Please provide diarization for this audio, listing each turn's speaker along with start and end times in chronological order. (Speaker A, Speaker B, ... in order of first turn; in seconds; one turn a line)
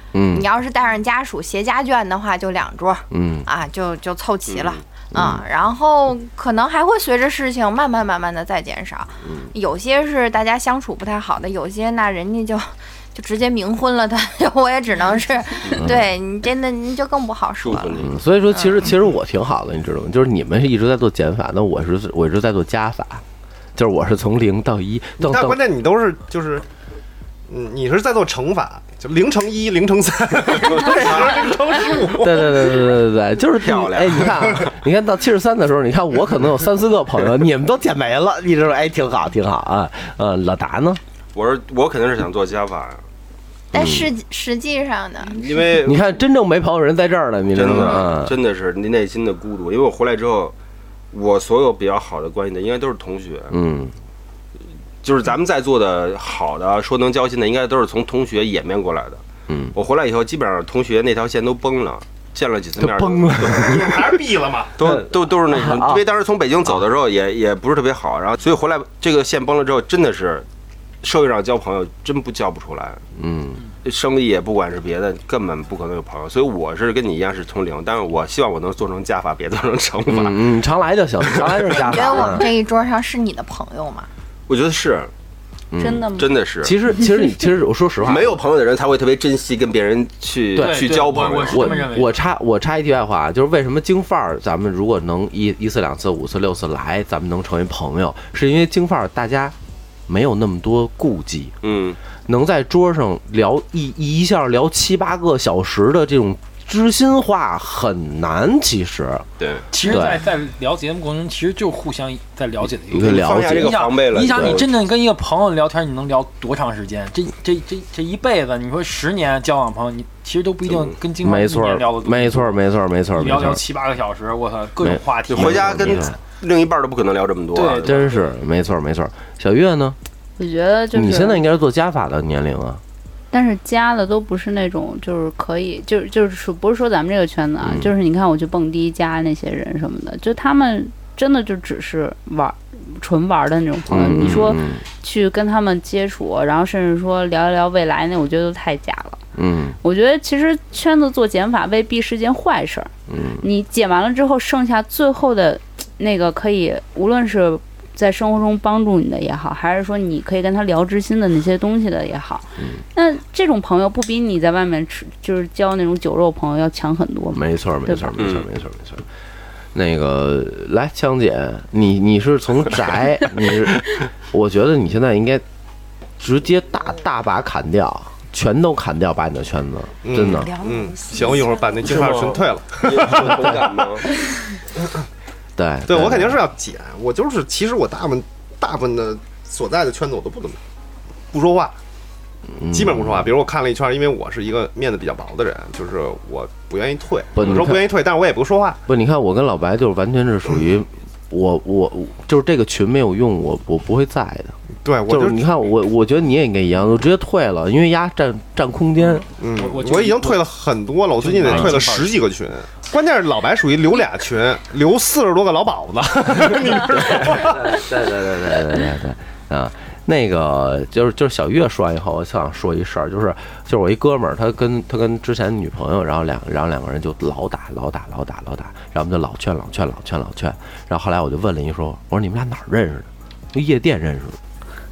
Speaker A: 0.1-0.5
Speaker B: 0.3-18.1
Speaker A: 3.1-3.5
Speaker C: 4.5-4.8
Speaker A: 5.1-5.4
Speaker A: 15.8-16.1
Speaker C: 17.6-18.1
Speaker A: 18.0-23.2
Speaker A: 23.7-25.6
Speaker D: 25.2-26.6
Speaker D: 27.5-32.9
Speaker C: 30.7-31.5
Speaker A: 32.1-41.0
Speaker C: 33.6-34.7
Speaker C: 41.3-43.0
Speaker B: 43.7-45.5
Speaker A: 43.7-44.1
Speaker C: 45.3-46.1
Speaker A: 45.8-48.3
Speaker C: 47.5-50.5
Speaker B: 47.7-48.0
Speaker C: 51.1-53.6
Speaker A: 53.5-53.9
Speaker C: 55.0-59.2
Speaker A: 59.5-59.7
Speaker C: 59.7-64.0
Speaker A: 62.8-64.2
Speaker D: 63.5-64.7
Speaker C: 64.8-70.5
Speaker A: 64.8-66.0
Speaker C: 71.0-73.0
Speaker A: 73.2-73.6
Speaker C: 73.8-80.4
Speaker A: 80.1-82.5
Speaker C: 81.2-81.8
Speaker B: 81.7-84.1
Speaker C: 84.5-85.1
Speaker A: 85.7-86.1
Speaker E: 85.8-86.3
Speaker C: 86.2-86.8
Speaker A: 86.6-88.4
Speaker C: 88.0-91.8
Speaker F: 90.5-92.2
Speaker A: 90.5-99.5
Speaker A: 100.1-101.5
Speaker C: 101.6-102.0
Speaker A: 102.2-109.2
Speaker C: 109.4-109.7
Speaker F: 109.7-122.6
Speaker A: 109.8-110.2
Speaker A: 112.9-114.6
Speaker C: 113.0-114.7
Speaker A: 121.2-123.6
Speaker F: 123.1-126.1
Speaker A: 124.8-126.2
Speaker C: 125.3-128.2
Speaker F: 127.5-128.2
Speaker A: 127.8-130.0
Speaker E: 130.4-131.4
Speaker A: 130.9-132.8
Speaker E: 133.3-149.2
Speaker A: 137.6-137.9
Speaker A: 143.9-144.8
Speaker A: 149.3-149.8
Speaker E: 149.8-168.1
Speaker A: 153.1-153.4
Speaker A: 167.3-169.0
Speaker C: 168.2-168.5
Speaker A: 169.7-175.4
Speaker A: 176.2-180.5
Speaker D: 180.0-184.0
Speaker B: 180.4-181.2
Speaker C: 181.8-184.1
Speaker A: 185.6-186.4
Speaker D: 185.9-190.6
Speaker D: 191.3-191.7
Speaker A: 192.6-193.3
Speaker D: 192.7-198.8
Speaker A: 197.3-197.9
Speaker A: 198.9-204.6
Speaker D: 204.8-205.4
Speaker A: 205.1-209.2
Speaker F: 209.1-210.4
Speaker D: 209.4-217.8
Speaker F: 211.2-212.2
Speaker A: 217.0-234.4